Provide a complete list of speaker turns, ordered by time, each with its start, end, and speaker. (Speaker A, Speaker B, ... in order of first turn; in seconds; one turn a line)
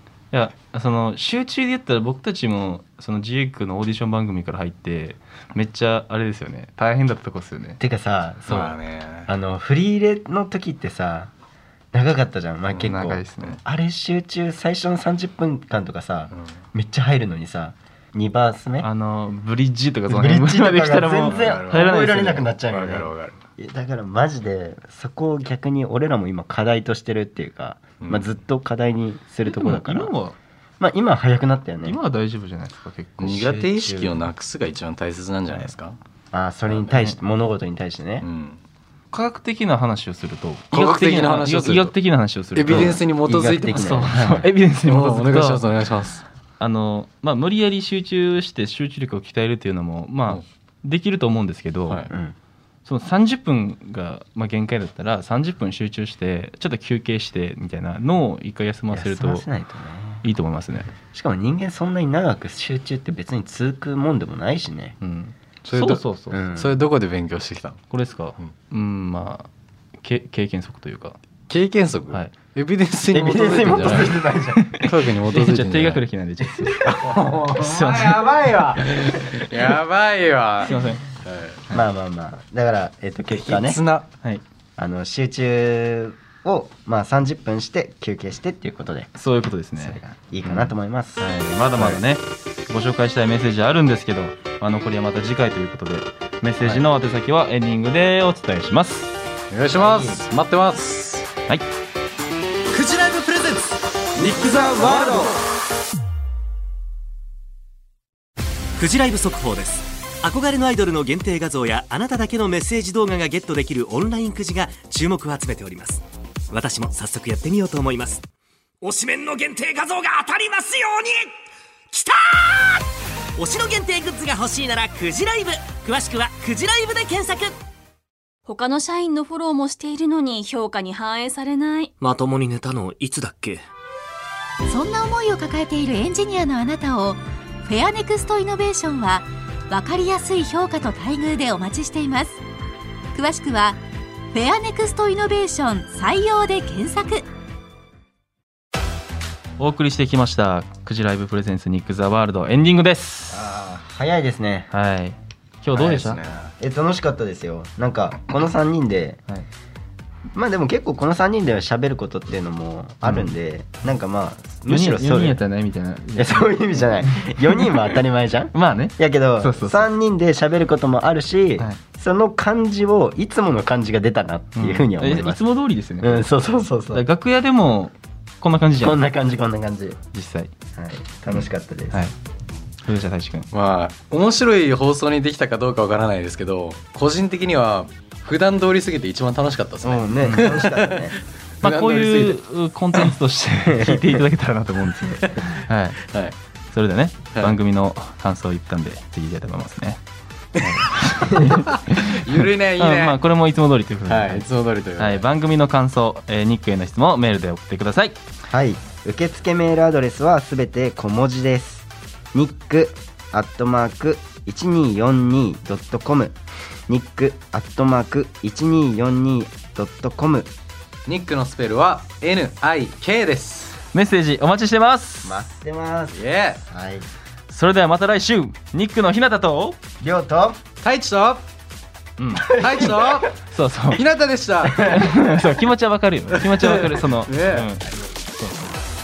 Speaker A: 0.3-7.8
Speaker B: 7.8-8.7
Speaker C: 8.5-9.3
Speaker B: 9.3-11.3
Speaker B: 11.9-18.9
Speaker A: 12.8-13.6
Speaker A: 18.8-22.5
Speaker B: 20.1-30.1
Speaker C: 21.3-23.3
Speaker C: 28.0-28.3
Speaker A: 29.4-30.4
Speaker B: 30.8-32.0
Speaker A: 31.8-33.6
Speaker C: 33.2-36.0
Speaker B: 33.3-34.2
Speaker B: 36.3-38.2
Speaker A: 36.9-37.1
Speaker C: 38.2-38.6
Speaker A: 39.1-43.0
Speaker C: 40.7-41.9
Speaker C: 42.5-44.0
Speaker B: 42.6-44.5
Speaker A: 43.7-45.6
Speaker C: 44.8-46.2
Speaker A: 46.6-52.0
Speaker B: 52.1-52.3
Speaker A: 52.8-59.5
Speaker B: 58.9-60.2
Speaker A: 60.2-60.9
Speaker B: 61.1-64.9
Speaker A: 65.0-66.4
Speaker C: 65.6-66.0
Speaker B: 66.3-66.8
Speaker C: 66.5-67.8
Speaker A: 67.9-71.2
Speaker C: 71.5-74.2
Speaker B: 73.1-74.7
Speaker A: 74.7-76.8
Speaker C: 74.8-76.0
Speaker B: 76.5-77.2
Speaker C: 76.8-81.7
Speaker A: 77.5-78.3
Speaker A: 80.6-81.0
Speaker B: 81.7-83.8
Speaker C: 83.3-84.1
Speaker B: 84.8-89.1
Speaker A: 89.1-99.1
Speaker B: 89.8-91.2
Speaker B: 91.8-92.0
Speaker C: 99.5-101.3
Speaker B: 99.7-100.2
Speaker C: 102.7-103.8
Speaker B: 104.3-105.1
Speaker C: 104.5-105.3
Speaker D: 108.8-118.2
Speaker D: 118.8-121.3
Speaker D: 121.9-127.6
Speaker E: 128.5-131.9
Speaker D: 132.0-133.6
Speaker F: 134.7-142.4
Speaker F: 143.1-143.8
Speaker F: 144.3-147.2
Speaker A: 149.6-153.4
Speaker B: 153.3-154.7
Speaker A: 154.7-156.2
Speaker C: 155.7-156.5
Speaker B: 156.6-159.2
Speaker B: 160.3-165.4
Speaker A: 163.0-163.3
Speaker A: 164.7-167.8
Speaker B: 166.2-175.4
Speaker A: 168.5-169.9
Speaker A: 174.6-176.3
Speaker B: 176.0-177.0
Speaker A: 176.9-179.0
Speaker B: 178.8-180.0
Speaker A: 180.1-180.5
Speaker B: 180.7-181.9
Speaker A: 182.8-183.5
Speaker C: 183.5-192.4
Speaker B: 189.8-191.2
Speaker A: 191.6-196.0
Speaker B: 193.7-194.2
Speaker C: 195.1-196.3
Speaker A: 196.7-200.0
Speaker A: 200.6-202.1
Speaker B: 201.3-201.5
Speaker C: 201.5-203.2
Speaker A: 202.8-204.4
Speaker C: 204.0-205.2
Speaker A: 205.0-208.2
Speaker B: 208.5-216.3
Speaker B: 216.9-220.5
Speaker C: 221.1-223.8
Speaker A: 223.9-225.5
Speaker B: 225.2-227.1
Speaker C: 226.1-226.6
Speaker A: 227.5-229.8
Speaker B: 230.0-230.6
Speaker C: 230.8-231.4
Speaker A: 232.2-232.8
Speaker C: 232.5-233.3
Speaker B: 232.6-233.3
Speaker A: 233.5-234.0
Speaker C: 233.9-234.9
Speaker B: 234.6-235.3
Speaker A: 234.8-237.8
Speaker C: 236.3-237.7